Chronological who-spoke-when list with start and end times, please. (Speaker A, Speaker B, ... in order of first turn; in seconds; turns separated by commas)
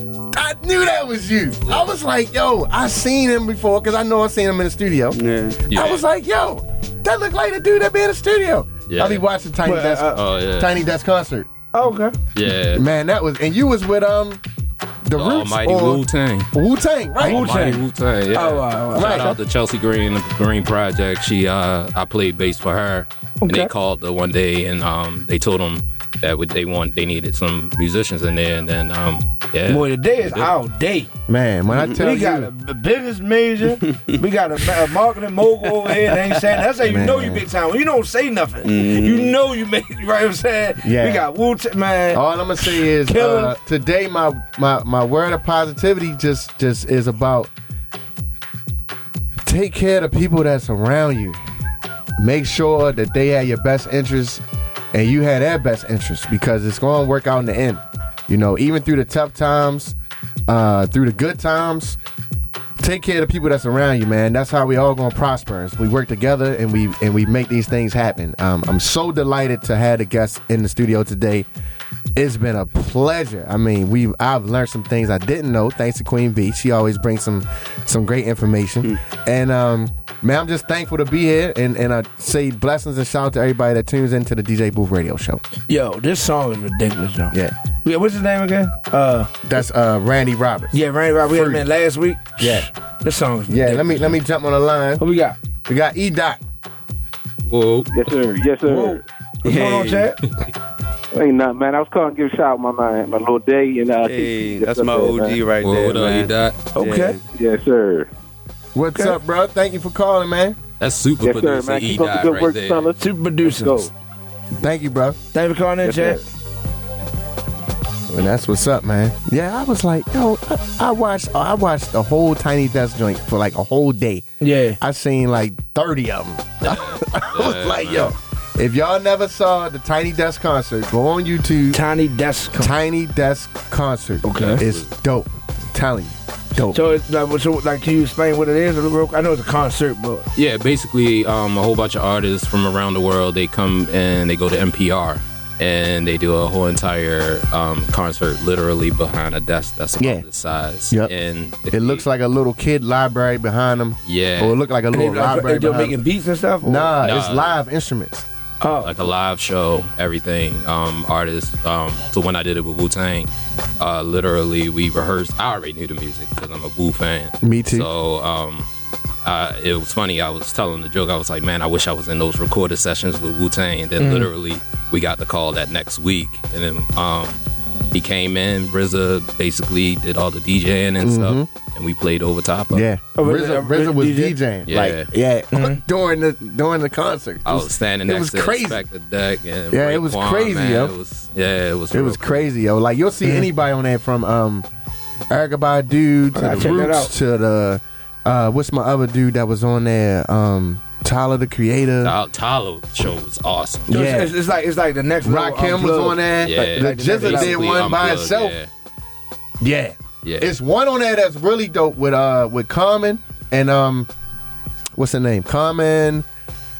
Speaker A: 0.3-11.5, Speaker B: 5.1-5.6, Speaker C: 5.7-6.0, Speaker C: 8.9-9.3, Speaker D: 9.6-10.2, Speaker C: 10.1-10.7, Speaker D: 11.7-12.2, Speaker C: 12.3-12.8, Speaker A: 12.7-14.4, Speaker A: 15.0-17.6, Speaker C: 15.1-16.5, Speaker D: 17.2-17.8, Speaker C: 17.2-30.5, Speaker D: 18.3-19.4, Speaker A: 18.9-19.4, Speaker D: 23.4-23.7, Speaker D: 29.7-31.1, Speaker A: 31.3-32.5, Speaker D: 32.0-43.5, Speaker A: 36.8-37.4, Speaker B: 38.6-39.3, Speaker A: 40.8-41.3, Speaker A: 42.1-47.5, Speaker A: 49.4-51.4, Speaker A: 52.2-54.4, Speaker A: 54.9-60.0, Speaker A: 60.5-62.0, Speaker A: 62.8-71.5, Speaker A: 72.1-85.4, Speaker D: 85.7-89.3, Speaker A: 89.4-91.7, Speaker D: 90.7-94.2, Speaker A: 92.4-92.7, Speaker A: 93.5-95.0, Speaker D: 95.0-95.4, Speaker A: 95.7-96.4, Speaker C: 97.5-98.1, Speaker E: 97.9-99.0, Speaker D: 98.7-100.2, Speaker B: 99.5-100.1, Speaker E: 101.1-105.4, Speaker B: 104.0-107.2, Speaker C: 105.6-106.6, Speaker D: 106.8-107.2, Speaker E: 107.3-108.1, Speaker A: 108.8-110.6, Speaker C: 110.8-112.9, Speaker E: 111.2-113.9, Speaker D: 113.0-113.9, Speaker A: 114.6-115.2, Speaker D: 115.3-116.2, Speaker E: 115.8-116.2, Speaker A: 118.1-124.3, Speaker D: 124.4-124.8, Speaker A: 124.8-131.8, Speaker C: 126.6-128.1, Speaker D: 131.7-132.7, Speaker A: 132.5-136.8, Speaker D: 134.2-134.6, Speaker C: 134.3-134.8, Speaker D: 136.7-140.3, Speaker C: 140.4-152.0, Speaker A: 150.0-150.3, Speaker A: 151.7-156.0, Speaker C: 154.1-154.6, Speaker D: 154.9-156.9, Speaker A: 156.6-158.2, Speaker C: 157.0-157.6, Speaker D: 158.6-158.9, Speaker C: 158.8-168.7, Speaker A: 167.4-167.9, Speaker C: 169.2-177.4, Speaker D: 174.0-174.3, Speaker C: 177.9-182.8, Speaker A: 181.0-181.5, Speaker A: 182.7-188.8, Speaker D: 183.2-184.4, Speaker C: 184.7-185.1, Speaker D: 185.5-185.8, Speaker C: 187.4-192.4, Speaker A: 189.7-190.9, Speaker A: 191.9-194.7, Speaker D: 193.2-193.5, Speaker A: 195.3-202.1, Speaker D: 196.3-197.1, Speaker C: 202.0-203.9, Speaker A: 203.9-204.3, Speaker D: 203.9-207.7, Speaker A: 205.2-208.6, Speaker C: 206.4-208.7, Speaker A: 209.6-214.1, Speaker C: 210.2-210.5, Speaker A: 214.9-216.2